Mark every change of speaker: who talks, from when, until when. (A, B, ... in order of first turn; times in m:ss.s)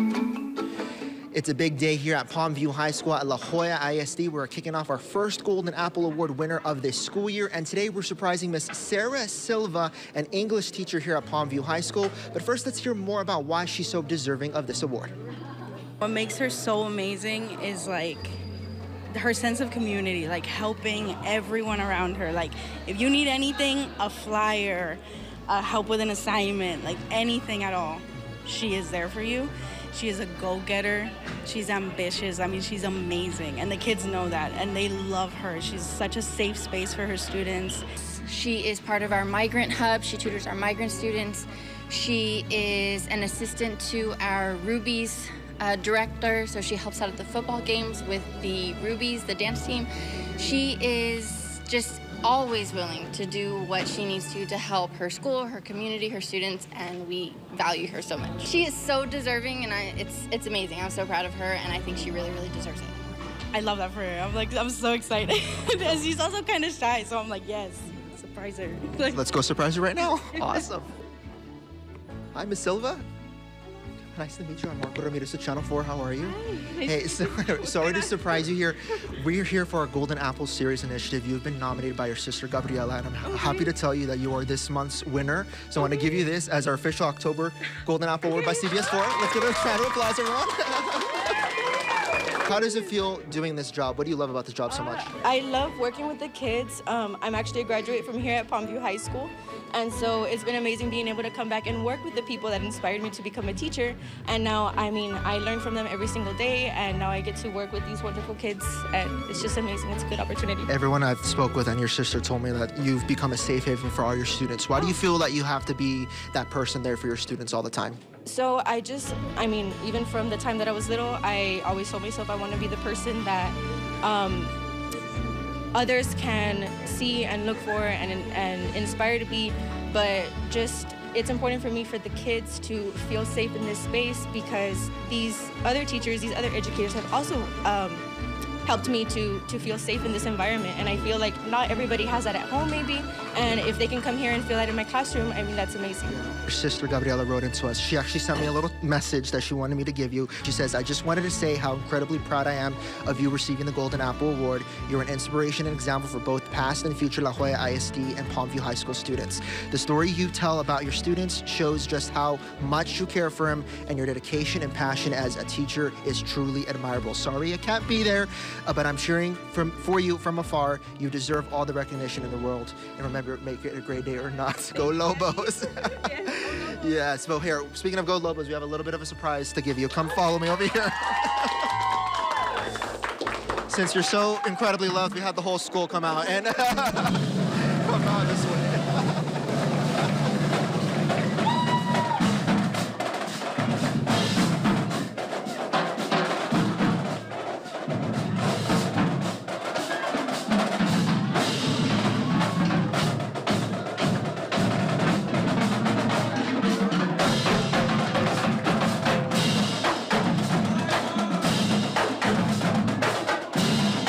0:01.3-0:15.1 A
0:16.0-0:18.4 B
0:19.1-0:37.9 B
0:38.0-0:49.9 C
0:50.4-1:03.0 C
1:03.5-1:09.2 B
1:09.1-1:10.9 A
1:10.2-1:10.6 B
1:12.3-1:13.0 A
1:14.1-1:31.3 A
1:16.5-1:17.8 B
1:32.4-1:35.1 A
1:35.1-1:50.7 D
1:50.7-1:58.0 A
1:58.2-2:04.5 D
2:05.7-2:18.0 D
2:18.6-2:26.3 D
2:26.3-3:01.7 A
3:03.7-3:09.2 A